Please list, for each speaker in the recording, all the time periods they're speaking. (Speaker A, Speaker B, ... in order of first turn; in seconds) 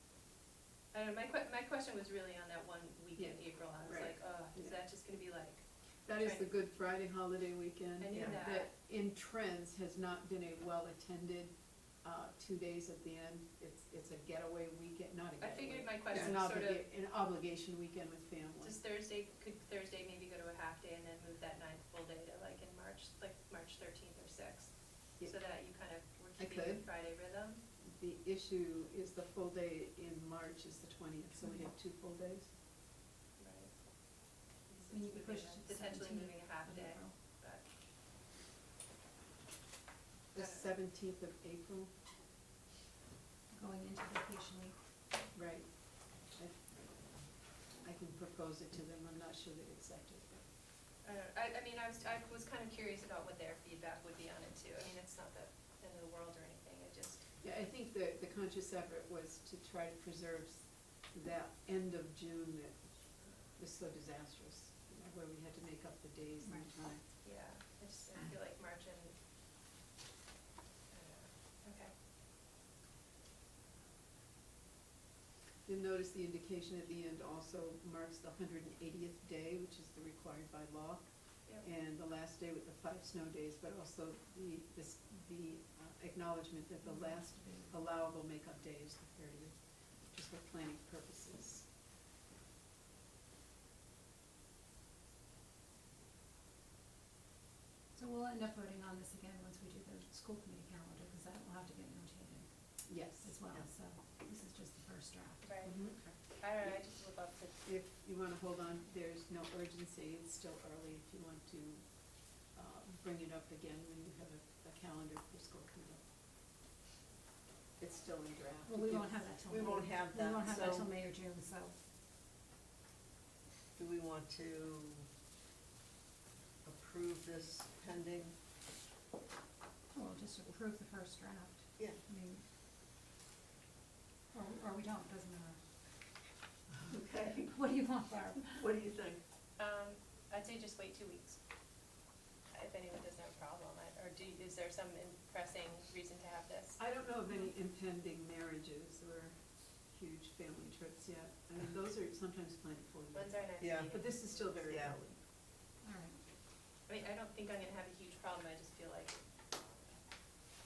Speaker A: 0.9-6.6, 8.0-8.7, 15.4-16.9, 18.6-27.6, 33.4-37.7, 40.3-40.7, 51.0-57.3, 67.0-69.2, 70.9-72.0, 105.4-105.8, 106.3-107.6, 139.6-141.4, 142.5-146.9, 153.1-154.6, 156.8-160.2
Speaker B: 3.1-4.8, 6.0-18.8, 26.4-26.9, 27.8-32.5, 40.3-41.9, 45.3-50.5, 57.4-67.0, 75.7-91.7, 102.9-103.3, 105.6-106.1, 107.6-116.1, 117.8-119.2, 146.8-155.2
Speaker C: 8.1-8.4, 119.5-120.9, 123.8-125.1, 126.6-128.3, 136.8-137.5, 138.6-139.2, 153.6-154.0, 154.6-155.0
Speaker D: 31.4-31.7, 34.9-37.1, 43.5-44.8, 66.4-66.7, 86.8-87.8, 97.9-106.0, 118.6-121.8, 129.9-132.4, 134.3-135.6, 137.4-138.7, 155.8-156.2